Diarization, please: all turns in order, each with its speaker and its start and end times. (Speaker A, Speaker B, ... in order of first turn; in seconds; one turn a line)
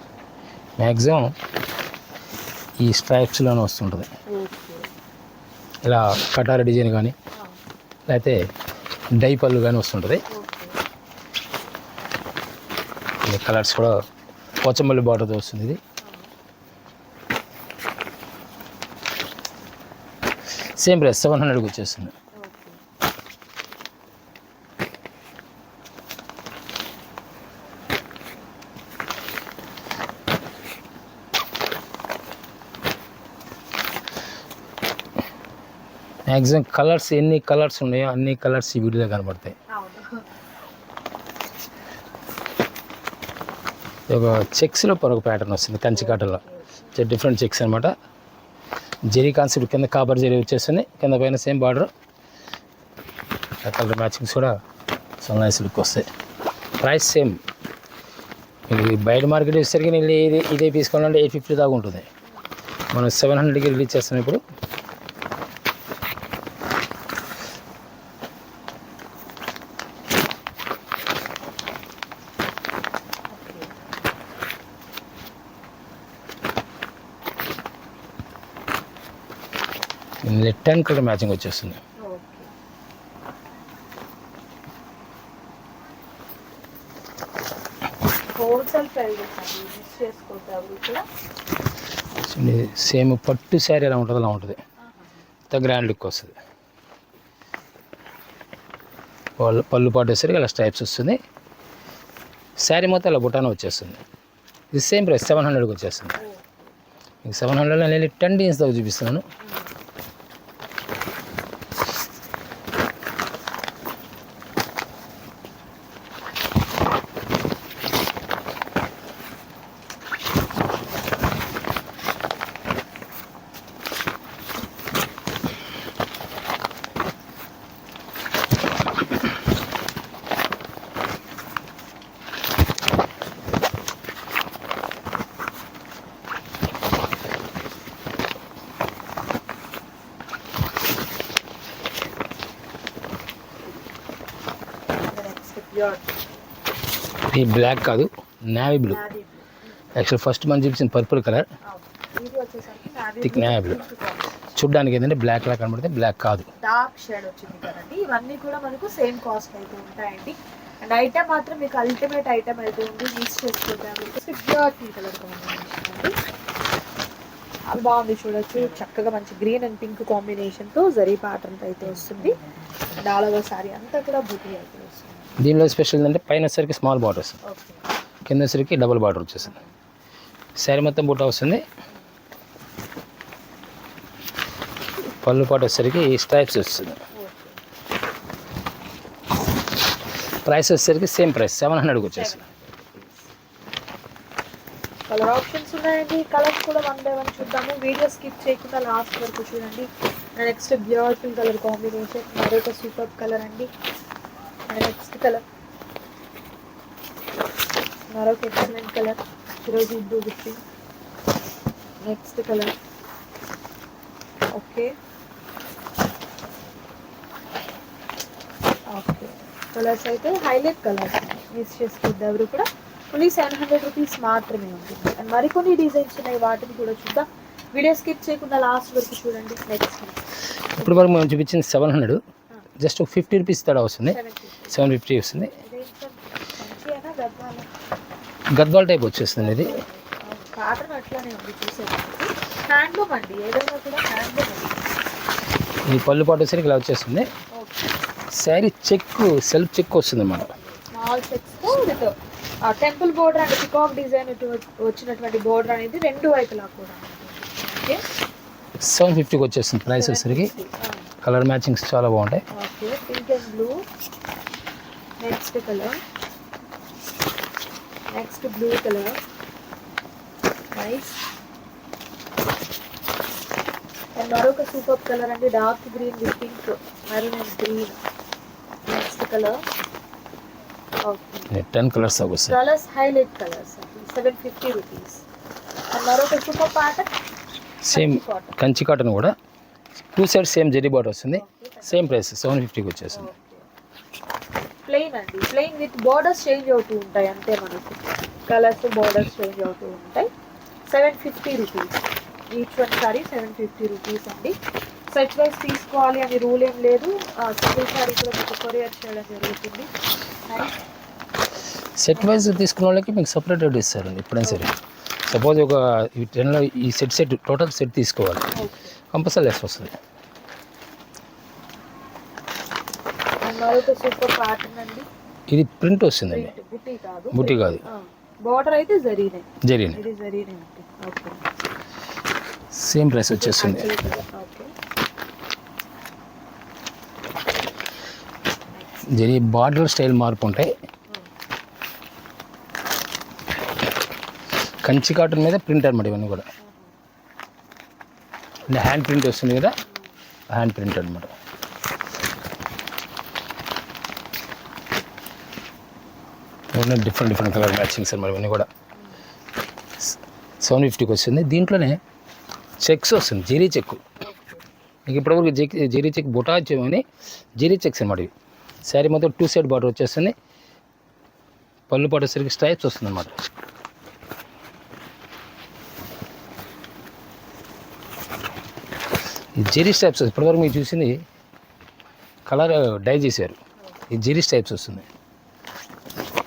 Speaker A: 0.8-1.3
Speaker A: 2.8-4.1
Speaker B: 4.3-4.9
Speaker A: 5.8-7.2
Speaker A: 8.1-8.4
Speaker A: 9.2-10.2
Speaker B: 10.3-10.8
Speaker A: 13.2-13.9
Speaker A: 14.6-15.8
Speaker B: 16.0-16.3
Speaker A: 20.8-22.1
Speaker B: 22.4-22.8
Speaker A: 36.3-39.5
Speaker B: 39.7-40.2
Speaker A: 44.1-46.4
Speaker B: 45.9-46.6
Speaker A: 46.9-47.9
Speaker A: 49.1-51.9
Speaker A: 53.6-54.5
Speaker A: 55.2-56.1
Speaker A: 56.8-57.4
Speaker A: 58.7-62.1
Speaker A: 62.9-64.4
Speaker B: 73.3-73.7
Speaker A: 80.2-81.8
Speaker B: 82.0-82.5
Speaker B: 88.4-91.0
Speaker A: 92.3-94.6
Speaker B: 94.8-95.2
Speaker A: 95.5-96.3
Speaker A: 99.4-101.2
Speaker A: 102.6-104.0
Speaker A: 104.7-106.2
Speaker B: 106.2-106.7
Speaker A: 107.2-109.2
Speaker B: 109.4-109.7
Speaker B: 145.1-146.2
Speaker A: 147.3-149.0
Speaker B: 148.8-149.7
Speaker A: 150.0-151.5
Speaker B: 151.7-154.5
Speaker A: 153.2-153.8
Speaker A: 154.6-156.5
Speaker B: 156.6-166.1
Speaker B: 167.7-175.4
Speaker A: 175.4-177.4
Speaker B: 177.4-177.8
Speaker A: 178.3-179.6
Speaker B: 179.4-179.7
Speaker A: 180.6-181.6
Speaker A: 185.2-187.0
Speaker B: 187.2-187.6
Speaker A: 190.4-192.4
Speaker B: 192.1-193.3
Speaker B: 195.1-203.7
Speaker B: 204.7-205.4
Speaker B: 208.1-210.6
Speaker B: 212.0-212.7
Speaker B: 214.5-214.9
Speaker B: 218.9-230.2
Speaker A: 230.8-232.2
Speaker B: 230.8-231.2
Speaker A: 232.8-234.2
Speaker B: 234.1-234.9
Speaker A: 234.7-235.5
Speaker B: 235.6-237.7
Speaker A: 238.6-239.8
Speaker B: 239.3-244.9
Speaker A: 245.9-247.3
Speaker B: 247.6-247.9
Speaker A: 248.3-250.6
Speaker B: 250.8-258.0
Speaker A: 258.8-260.5
Speaker B: 259.9-261.1
Speaker A: 261.2-262.4
Speaker B: 262.5-263.8
Speaker B: 265.2-266.0
Speaker B: 268.1-269.2
Speaker B: 270.7-271.2
Speaker B: 274.2-278.0
Speaker B: 278.9-279.6
Speaker B: 281.0-281.5
Speaker A: 281.5-282.6
Speaker B: 282.5-285.2
Speaker B: 285.9-287.1
Speaker A: 287.8-289.3
Speaker B: 287.9-288.5
Speaker A: 290.0-293.3
Speaker B: 291.3-292.2
Speaker B: 293.1-293.6
Speaker B: 294.9-300.3
Speaker B: 300.9-302.0
Speaker B: 302.5-304.5
Speaker B: 305.1-309.9
Speaker B: 310.5-310.8
Speaker A: 312.0-314.7
Speaker B: 314.4-314.7
Speaker A: 315.3-318.5
Speaker B: 318.5-318.9
Speaker A: 319.1-320.0
Speaker B: 323.4-325.1
Speaker A: 325.5-326.5
Speaker B: 326.3-331.4
Speaker A: 327.3-327.8
Speaker A: 329.6-330.0
Speaker A: 332.7-333.9
Speaker B: 333.4-334.7
Speaker B: 338.7-339.1
Speaker A: 339.1-340.7
Speaker A: 344.8-346.5
Speaker B: 346.6-346.9
Speaker A: 348.7-349.8
Speaker A: 350.5-351.3
Speaker A: 356.7-358.7
Speaker B: 359.0-359.2
Speaker A: 360.6-362.0
Speaker A: 362.8-364.0
Speaker B: 364.2-364.7
Speaker A: 365.1-367.0
Speaker A: 367.6-368.3
Speaker A: 368.9-370.3
Speaker A: 371.9-373.4
Speaker A: 379.6-381.2
Speaker A: 382.5-383.6
Speaker A: 384.1-385.1